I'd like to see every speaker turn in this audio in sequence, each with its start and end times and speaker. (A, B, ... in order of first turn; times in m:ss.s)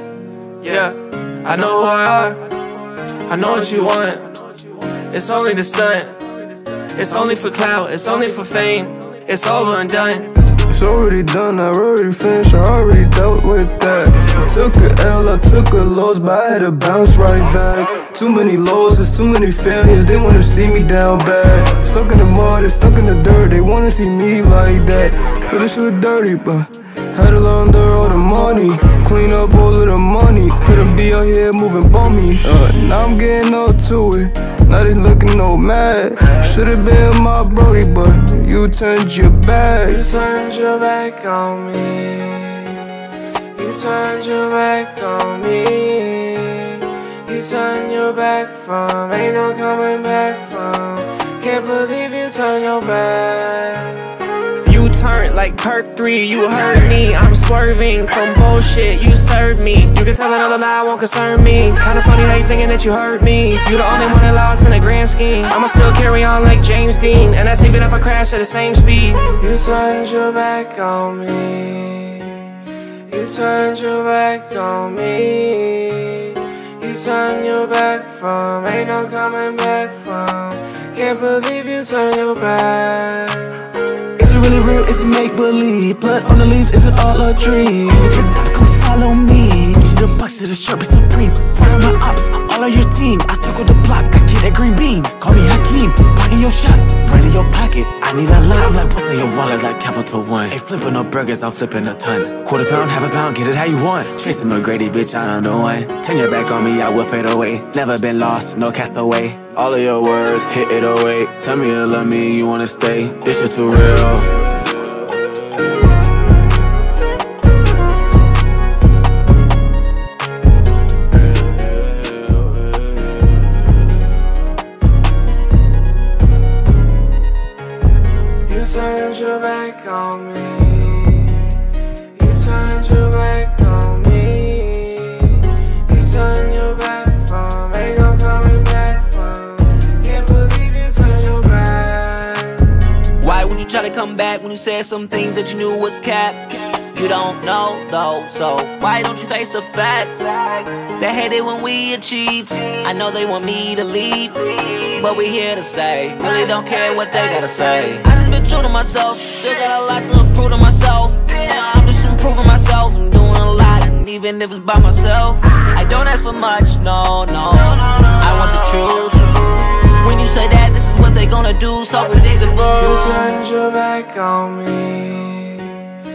0:00.6-0:02.4 A
0:03.3-0:04.4 A
0:05.1-0:06.2 A
0:06.9-0:10.3 A
0:10.7-0:40.0 B
0:39.9-0:42.9 A
0:43.5-1:23.6 A
1:24.2-1:55.4 C
2:08.4-2:22.7 A
2:23.2-2:30.4 D
2:30.9-2:49.4 D
2:50.0-2:53.1 D
2:52.8-2:55.9 A